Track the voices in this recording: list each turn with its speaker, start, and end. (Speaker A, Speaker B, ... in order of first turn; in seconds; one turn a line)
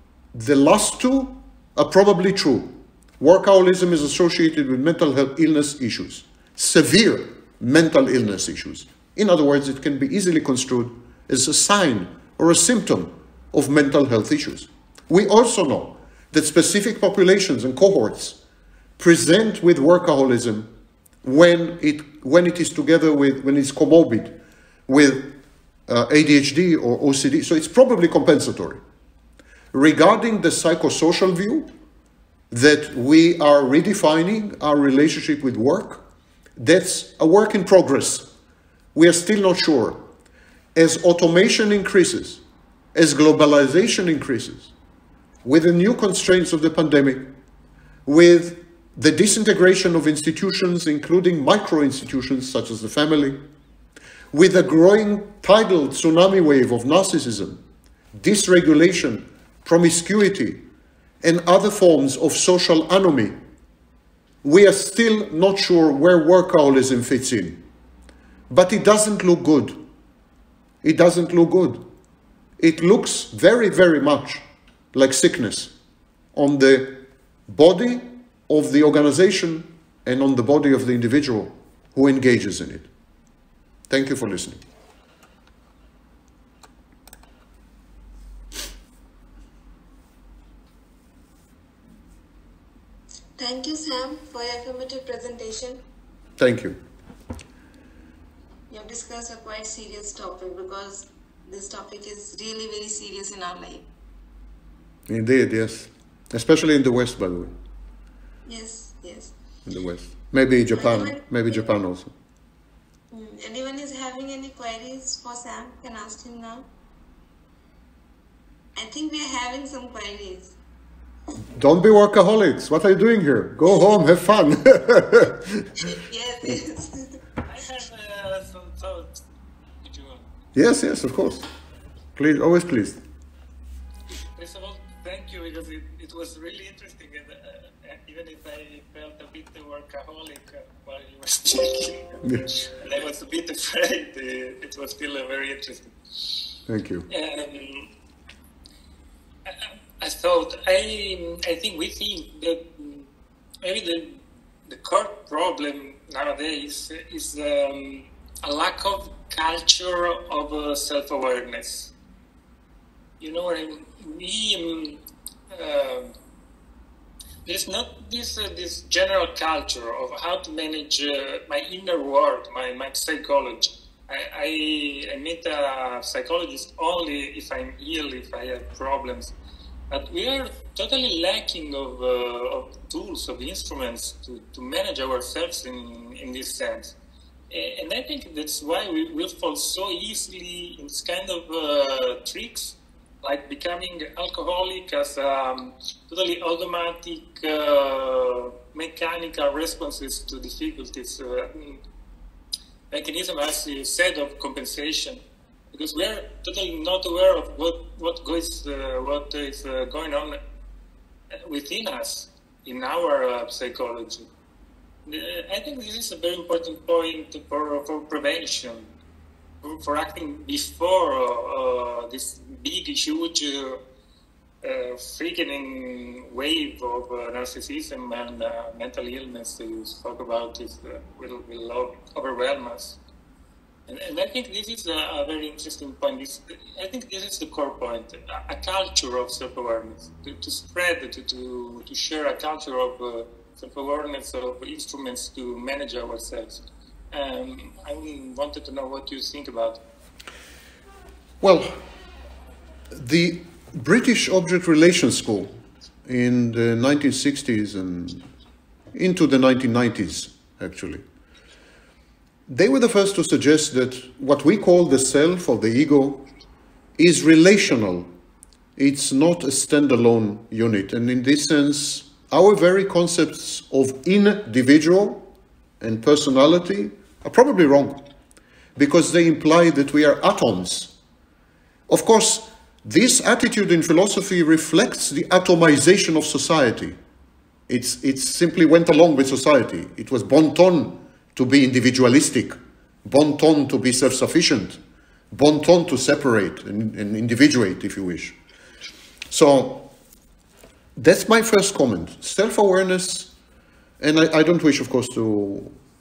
Speaker A: 0.3-18.4
Speaker A: 19.0-20.7
Speaker A: 21.2-24.4
Speaker A: 24.9-25.3
Speaker A: 25.9-28.8
Speaker A: 29.7-31.7
Speaker A: 32.5-36.0
Speaker A: 36.6-38.3
Speaker A: 39.0-40.0
Speaker A: 40.8-42.4
Speaker A: 43.0-44.7
Speaker A: 45.5-47.2
Speaker A: 48.1-53.4
Speaker A: 54.3-57.6
Speaker A: 58.2-60.6
Speaker A: 61.2-63.4
Speaker A: 64.4-67.6
Speaker A: 68.5-69.8
Speaker A: 70.8-71.8
Speaker A: 72.6-75.7
Speaker A: 76.3-82.9
Speaker A: 83.9-84.6
Speaker B: 93.4-95.8
Speaker A: 96.4-96.8
Speaker B: 98.7-103.9
Speaker A: 105.1-107.5
Speaker B: 108.5-109.3
Speaker A: 109.7-112.1
Speaker B: 110.7-111.2
Speaker B: 113.1-116.7
Speaker B: 118.8-120.5
Speaker A: 121.6-125.7
Speaker B: 125.8-127.2
Speaker C: 127.5-129.2
Speaker C: 129.8-130.3
Speaker A: 130.6-131.5
Speaker A: 132.2-133.0
Speaker C: 134.3-145.9
Speaker A: 142.2-142.5
Speaker A: 146.7-147.1
Speaker C: 147.1-147.9
Speaker C: 149.5-153.1
Speaker C: 153.6-161.9
Speaker C: 163.2-166.2
Speaker C: 167.4-179.3
Speaker C: 179.9-186.9
Speaker C: 187.5-201.8
Speaker C: 202.9-205.2
Speaker C: 205.7-210.4
Speaker C: 211.4-214.3
Speaker C: 215.1-218.9
Speaker C: 219.6-223.8
Speaker C: 224.6-233.0
Speaker C: 233.9-249.8
Speaker A: 251.4-251.7
Speaker A: 252.9-255.5
Speaker A: 256.1-258.3
Speaker A: 258.9-261.0
Speaker A: 262.5-266.2
Speaker A: 267.0-268.1
Speaker A: 268.8-275.3
Speaker A: 275.8-278.0
Speaker A: 278.8-280.9
Speaker A: 281.9-287.0
Speaker A: 287.7-294.8
Speaker A: 295.3-298.4
Speaker A: 299.3-299.9
Speaker A: 301.0-303.3
Speaker A: 304.0-305.7